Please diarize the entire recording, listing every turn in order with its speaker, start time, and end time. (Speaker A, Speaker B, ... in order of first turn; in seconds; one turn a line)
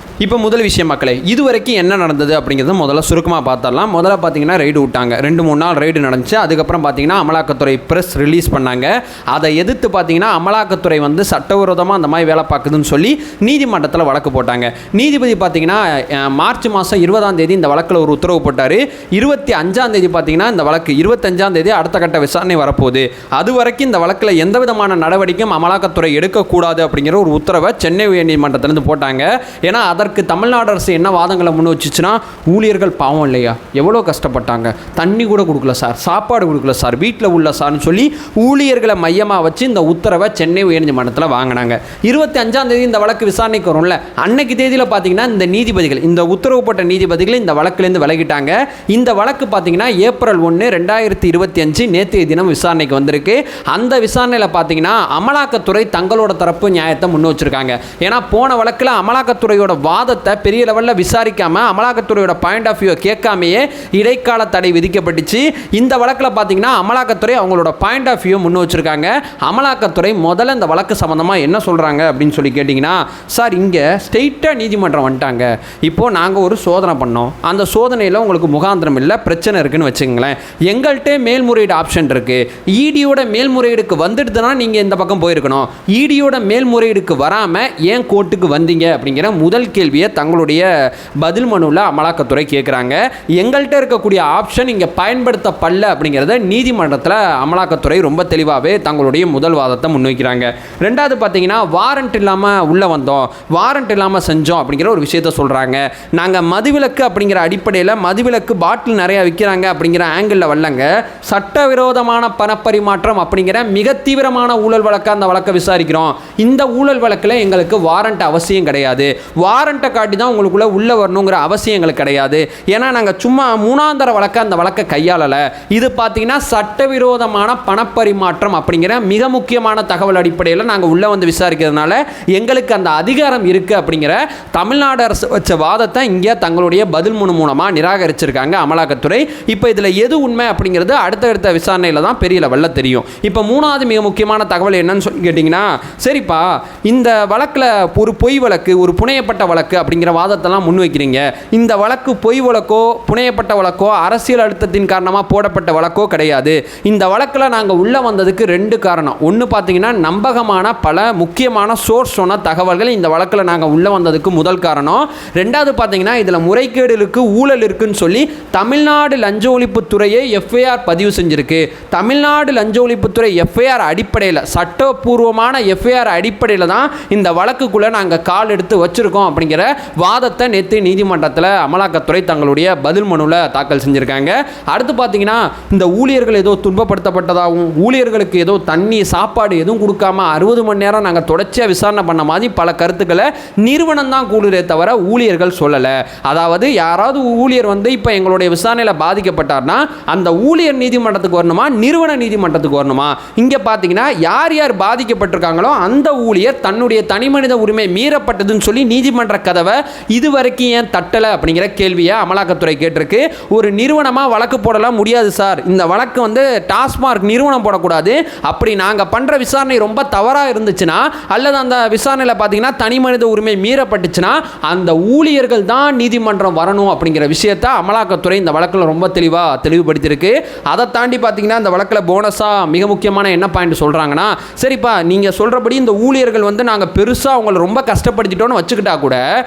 Speaker A: 0.2-90.7
Speaker A: 91.2-239.2